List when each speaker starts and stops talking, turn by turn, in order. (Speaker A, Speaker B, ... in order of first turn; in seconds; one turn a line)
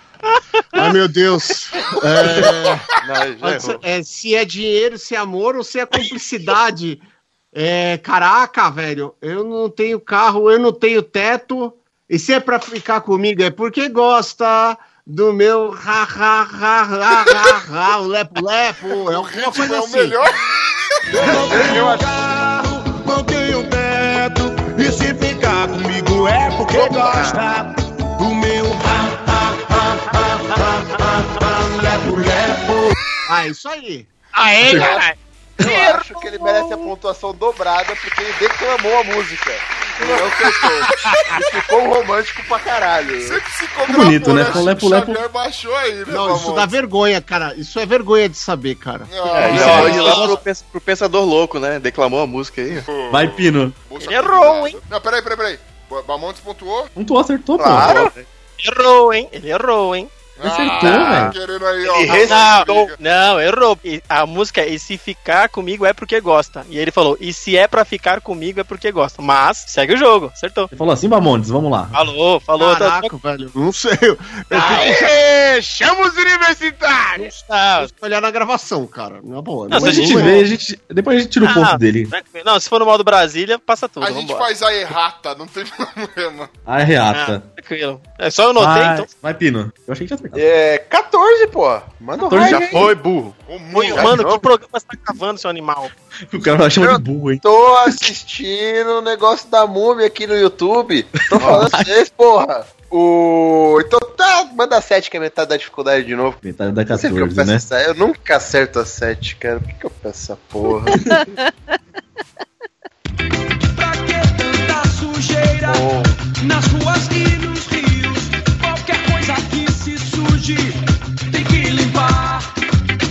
Speaker A: 0.7-20.2
Speaker B: 3.0-3.8
Speaker C: 19.0-20.4
Speaker D: 21.1-32.9
Speaker E: 21.5-22.1
Speaker E: 26.7-27.4
Speaker A: 33.2-34.1
Speaker F: 34.3-35.1
Speaker G: 34.6-34.9
Speaker E: 34.7-35.0
Speaker E: 35.6-43.4
Speaker C: 40.0-40.4
Speaker C: 43.2-46.8
Speaker G: 43.9-45.2
Speaker A: 46.1-50.1
Speaker C: 49.1-50.4
Speaker B: 49.2-52.9
Speaker H: 49.6-50.2
Speaker C: 52.8-56.9
Speaker G: 53.1-53.8
Speaker H: 54.0-54.8
Speaker G: 56.9-58.1
Speaker E: 57.6-58.0
Speaker B: 57.6-58.2
Speaker H: 58.6-60.1
Speaker C: 60.4-63.0
Speaker G: 60.4-61.3
Speaker B: 60.8-61.3
Speaker B: 61.8-62.8
Speaker H: 62.0-70.7
Speaker G: 70.7-72.0
Speaker H: 71.9-73.1
Speaker A: 72.5-75.0
Speaker F: 74.5-77.3
Speaker H: 74.6-74.9
Speaker H: 77.2-77.9
Speaker A: 77.8-80.4
Speaker H: 79.7-80.4
Speaker G: 79.7-82.1
Speaker H: 81.4-84.5
Speaker C: 84.0-86.5
Speaker G: 86.7-87.4
Speaker H: 87.1-89.1
Speaker G: 88.6-90.4
Speaker E: 90.3-92.9
Speaker G: 92.3-92.8
Speaker B: 92.3-93.3
Speaker C: 93.5-94.2
Speaker H: 93.7-95.9
Speaker E: 94.0-94.2
Speaker B: 94.0-94.3
Speaker G: 96.3-97.9
Speaker E: 96.8-111.0
Speaker G: 101.3-101.9
Speaker B: 101.3-101.7
Speaker G: 106.4-107.7
Speaker D: 113.7-122.5